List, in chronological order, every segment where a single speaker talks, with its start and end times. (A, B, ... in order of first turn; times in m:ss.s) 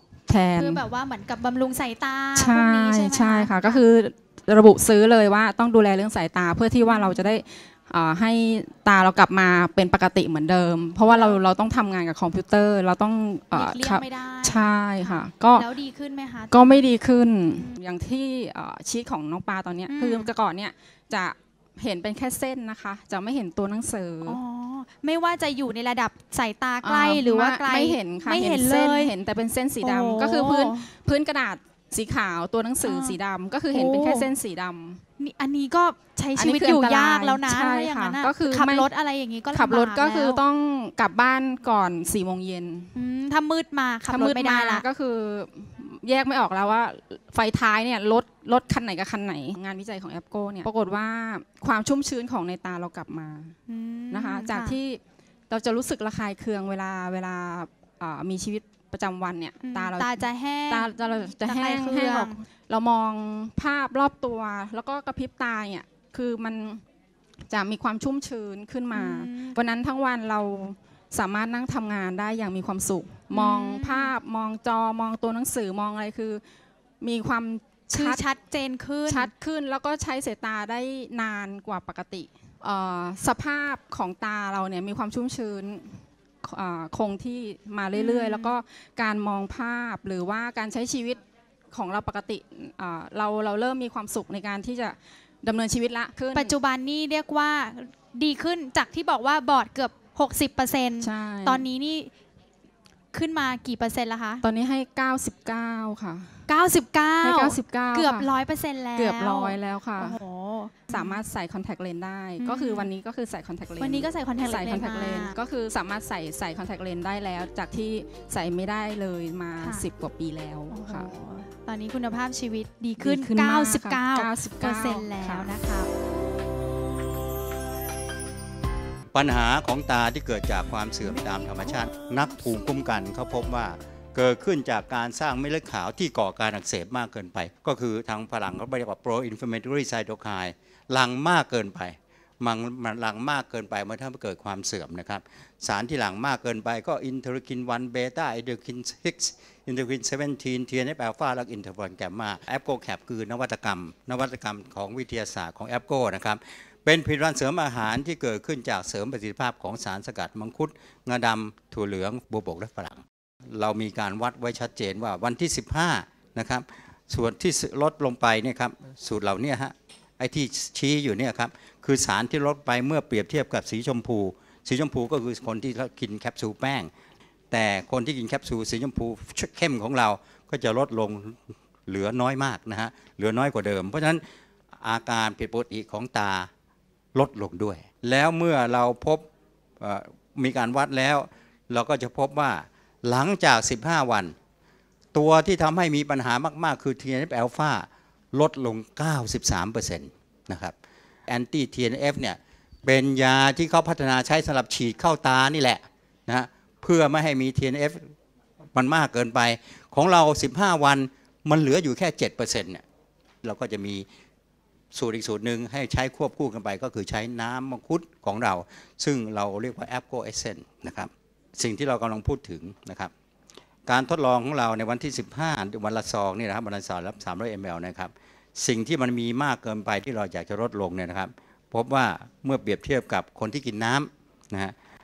0:00.3-0:00.8 A
0:00.5-0:03.8 B
0:02.3-0:15.7 A
0:06.8-0:07.2 B
0:11.0-0:11.4 B
0:13.5-0:16.8 B
0:16.5-0:24.4 A
0:17.5-0:17.8 B
0:19.9-0:20.3 B
0:24.2-0:29.1 B
0:26.8-0:35.0 A
0:29.8-0:30.9 B
0:32.8-0:33.2 B
0:33.7-0:34.3 B
0:35.2-0:40.4 B
0:36.4-0:38.9 A
0:39.5-0:42.9 A
0:42.9-0:44.8 B
0:44.1-0:53.5 A
0:53.7-0:54.8 B
0:54.1-1:06.8 A
0:59.6-1:02.4 B
1:07.5-1:16.4 A
1:08.9-1:09.6 B
1:13.3-1:14.1 B
1:17.0-1:18.2 A
1:17.9-1:19.3 B
1:19.1-1:31.2 A
1:28.0-1:28.5 B
1:31.7-1:36.5 A
1:36.3-1:42.1 B
1:41.0-1:41.7 A
1:43.1-1:44.4 B
1:44.4-1:46.4 A
1:46.5-1:51.2 B
1:47.2-1:48.3 A
1:48.9-1:50.2 A
1:50.9-2:01.1 A
1:52.4-1:52.9 B
1:53.8-1:55.3 B
2:00.7-2:05.9 B
2:03.0-2:05.6 A
2:09.1-2:56.9 C
2:57.5-3:04.2 C
3:04.7-3:06.5 C
3:07.1-3:09.2 C
3:09.8-3:14.3 C
3:15.1-3:20.7 C
3:21.3-3:28.1 C
3:28.7-3:32.8 C
3:33.4-3:34.0 C
3:34.9-3:43.1 C
3:43.9-3:54.7 C